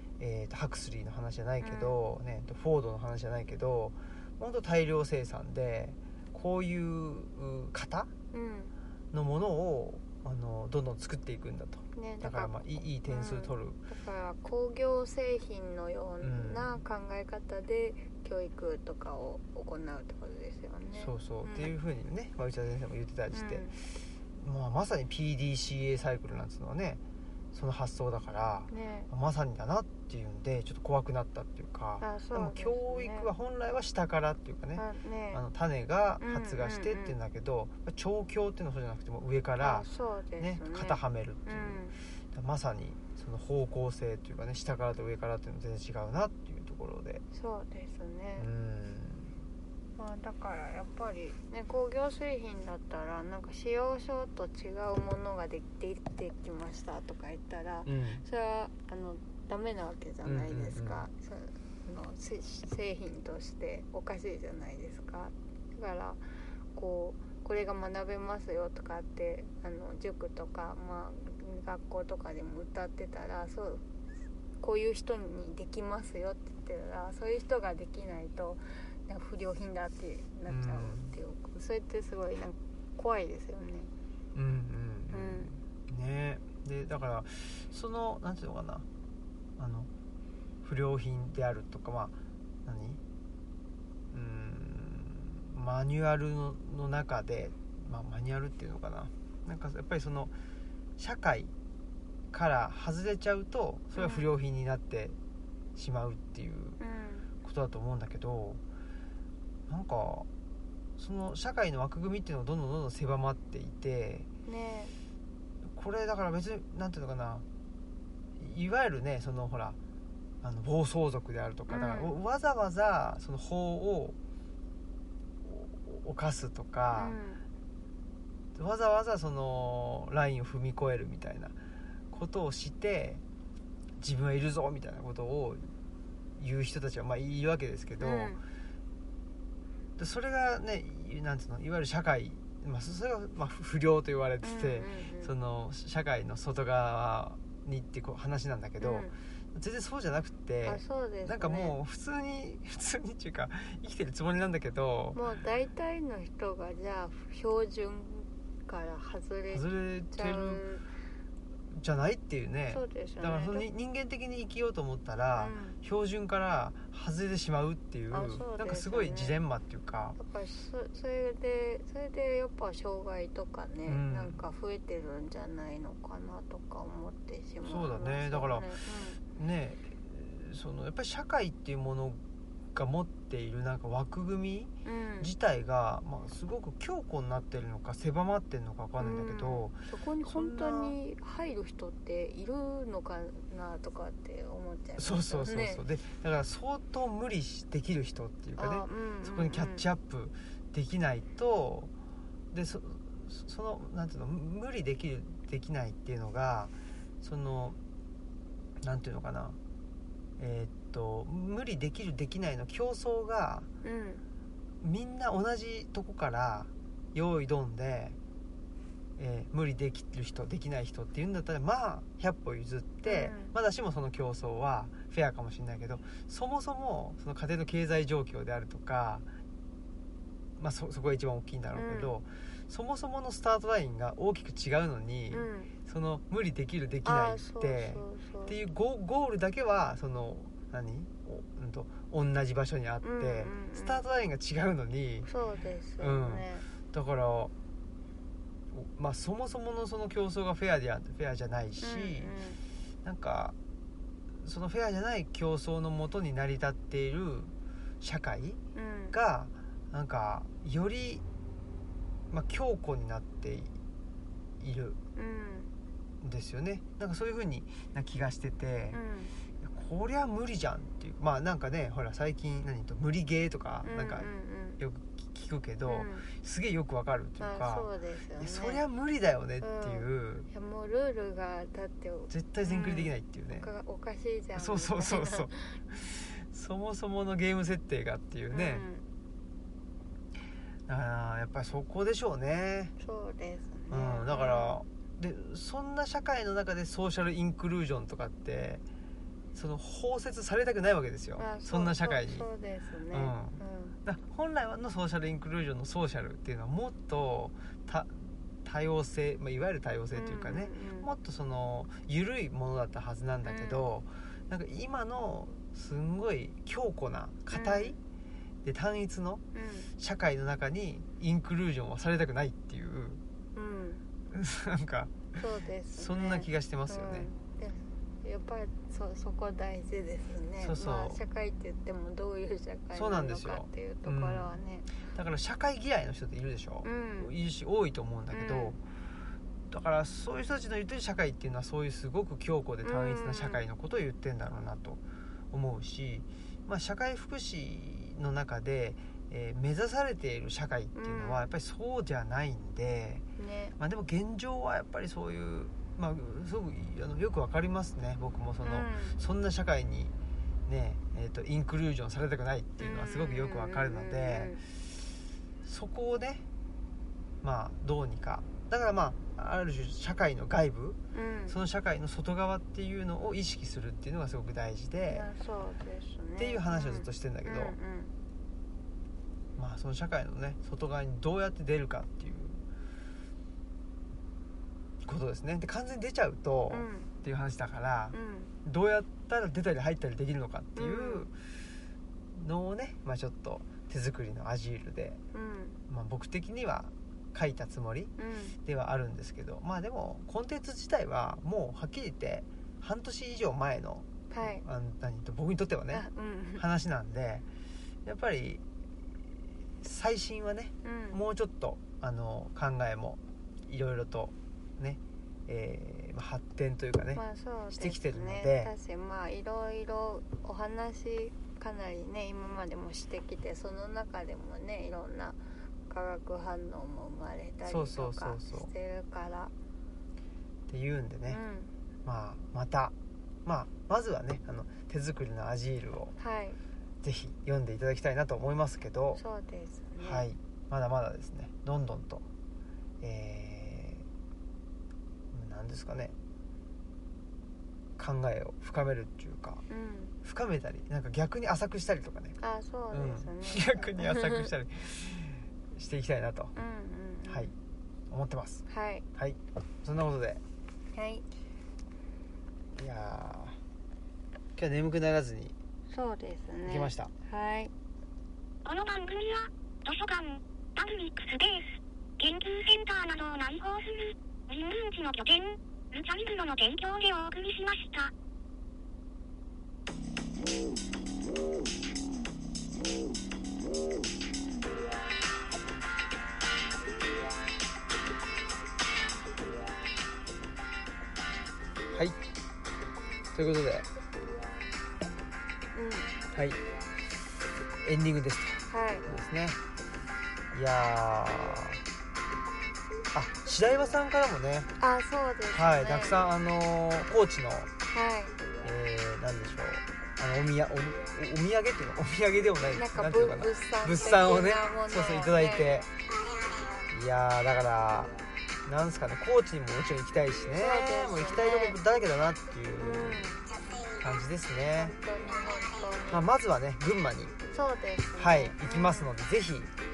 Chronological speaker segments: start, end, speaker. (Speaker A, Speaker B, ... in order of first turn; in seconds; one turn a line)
Speaker A: 0.2-8.1
Speaker B: 1.6-2.0
Speaker B: 8.3-8.7
Speaker A: 9.1-13.8
Speaker B: 11.9-21.7
Speaker A: 16.2-16.8
Speaker A: 20.9-23.7
Speaker B: 23.3-23.8
Speaker A: 24.4-27.0
Speaker A: 27.5-39.9
Speaker B: 28.7-29.1
Speaker B: 32.0-33.3
Speaker B: 34.8-35.4
Speaker B: 36.2-37.2
Speaker B: 39.6-42.0
Speaker A: 40.4-47.2
Speaker B: 47.3-48.5
Speaker A: 48.4-49.4
Speaker B: 50.0-73.8
Speaker A: 57.9-58.2
Speaker A: 60.2-61.0
Speaker B: 74.6-83.9
Speaker A: 80.5-81.1
Speaker A: 84.3-88.8
Speaker B: 85.1-85.5
Speaker A: 89.6-89.9
Speaker A: 90.6-92.1
Speaker A: 92.6-93.0
Speaker A: 94.1-100.3
Speaker A: 101.0-101.5
Speaker A: 102.3-105.2
Speaker B: 104.0-104.3
Speaker A: 105.8-106.8
Speaker B: 106.8-107.3
Speaker A: 107.4-108.6
Speaker A: 109.7-110.3
Speaker A: 111.0-114.3
Speaker B: 114.5-114.9
Speaker A: 115.7-117.4
Speaker A: 118.4-119.8
Speaker A: 120.4-124.2
Speaker B: 121.7-122.1
Speaker A: 125.4-127.2
Speaker B: 126.9-127.4
Speaker A: 128.5-131.6
Speaker A: 132.1-133.2
Speaker A: 134.0-135.7
Speaker A: 136.4-138.4
Speaker B: 138.0-138.4
Speaker A: 140.0-155.2
Speaker B: 144.4-145.3
Speaker B: 148.8-149.2
Speaker B: 150.6-151.8
Speaker B: 155.1-160.8
Speaker A: 159.5-160.6
Speaker A: 161.7-170.2
Speaker B: 162.7-163.7
Speaker B: 165.3-165.8
Speaker B: 168.1-169.4
Speaker B: 170.2-179.2
Speaker A: 173.8-174.4
Speaker A: 177.6-178.7
Speaker A: 179.3-182.2
Speaker A: 182.7-191.0
Speaker B: 184.8-185.3
Speaker B: 189.0-195.8
Speaker A: 195.0-201.9
Speaker B: 198.6-199.9
Speaker A: 202.5-207.8
Speaker A: 208.8-209.6
Speaker A: 210.4-213.7
Speaker B: 213.8-214.2
Speaker A: 214.8-218.2
Speaker A: 219.2-229.2
Speaker B: 223.0-223.5
Speaker A: 230.6-245.3
Speaker B: 231.7-232.1
Speaker B: 235.3-235.7
Speaker B: 237.0-238.6
Speaker B: 243.0-244.0
Speaker B: 245.3-246.7
Speaker A: 246.0-247.5
Speaker A: 248.7-252.3
Speaker B: 251.8-252.6
Speaker A: 253.0-253.6
Speaker A: 254.4-258.6
Speaker B: 258.7-259.1
Speaker A: 259.1-261.2
Speaker A: 262.3-263.8
Speaker A: 264.6-265.0
Speaker B: 265.1-265.7
Speaker A: 266.2-269.0
Speaker B: 268.9-269.3
Speaker A: 269.6-280.5
Speaker B: 273.8-274.8
Speaker B: 275.9-276.3
Speaker B: 277.4-278.8
Speaker B: 279.6-285.8
Speaker A: 282.3-283.7
Speaker A: 284.6-288.8
Speaker B: 288.5-289.0
Speaker A: 290.9-292.9
Speaker B: 293.0-294.8
Speaker A: 293.9-298.8
Speaker A: 299.5-302.5
Speaker B: 301.4-304.0
Speaker A: 303.1-318.0
Speaker B: 310.1-311.1
Speaker B: 313.4-313.9
Speaker B: 317.5-318.0
Speaker A: 318.6-319.4
Speaker B: 319.5-319.9
Speaker A: 320.0-323.2
Speaker B: 323.5-324.0
Speaker A: 324.3-325.4
Speaker B: 325.4-334.9
Speaker A: 325.9-327.3
Speaker A: 330.6-331.2
Speaker A: 332.9-338.8
Speaker B: 336.8-337.3
Speaker B: 338.3-338.8
Speaker A: 339.7-353.2
Speaker B: 342.8-343.6
Speaker B: 350.9-351.5
Speaker B: 353.4-353.7
Speaker A: 353.8-360.1
Speaker B: 358.6-359.2
Speaker A: 360.6-364.7
Speaker B: 362.8-364.6
Speaker A: 365.6-366.4
Speaker A: 367.4-371.0
Speaker B: 371.1-371.6
Speaker A: 371.5-375.3
Speaker B: 375.1-378.1
Speaker A: 376.4-377.8
Speaker A: 379.6-382.6
Speaker A: 385.0-391.3
Speaker B: 386.7-387.1
Speaker B: 388.1-388.5
Speaker B: 390.8-391.3
Speaker A: 392.3-395.2
Speaker B: 395.3-395.8
Speaker A: 395.9-398.1
Speaker B: 398.2-398.6
Speaker A: 398.6-407.4
Speaker B: 404.3-404.6
Speaker B: 405.9-406.6
Speaker A: 408.0-408.6
Speaker A: 409.3-418.7
Speaker B: 410.8-411.2
Speaker B: 417.1-429.5
Speaker A: 427.7-428.7
Speaker A: 430.7-431.4
Speaker B: 431.3-431.7
Speaker A: 432.0-436.1
Speaker B: 436.2-436.6
Speaker A: 437.0-439.2
Speaker B: 439.1-440.2
Speaker A: 440.0-442.2
Speaker A: 443.0-444.1
Speaker A: 445.3-446.1
Speaker A: 448.0-449.6
Speaker B: 449.7-450.1
Speaker A: 450.2-452.4
Speaker B: 452.4-454.5
Speaker A: 452.9-456.5
Speaker B: 456.6-457.5
Speaker A: 457.3-457.5
Speaker A: 458.1-460.4
Speaker B: 458.7-459.1
Speaker B: 460.9-461.2
Speaker A: 462.7-463.6
Speaker A: 464.6-465.5
Speaker B: 465.9-467.7
Speaker A: 466.6-467.1
Speaker C: 468.6-478.1
Speaker A: 493.3-493.9
Speaker B: 495.7-496.2
Speaker A: 496.3-496.6
Speaker A: 497.8-499.6
Speaker B: 498.7-499.1
Speaker A: 500.5-501.8
Speaker A: 503.1-504.7
Speaker B: 504.8-506.2
Speaker A: 505.5-507.7
Speaker B: 507.9-508.4
Speaker A: 508.6-515.9
Speaker B: 512.7-515.9
Speaker A: 516.9-518.1
Speaker A: 518.6-523.3
Speaker B: 520.5-521.8
Speaker B: 522.8-523.5
Speaker A: 524.0-525.0
Speaker B: 524.8-526.3
Speaker A: 526.1-527.3
Speaker B: 527.5-529.1
Speaker A: 528.2-529.7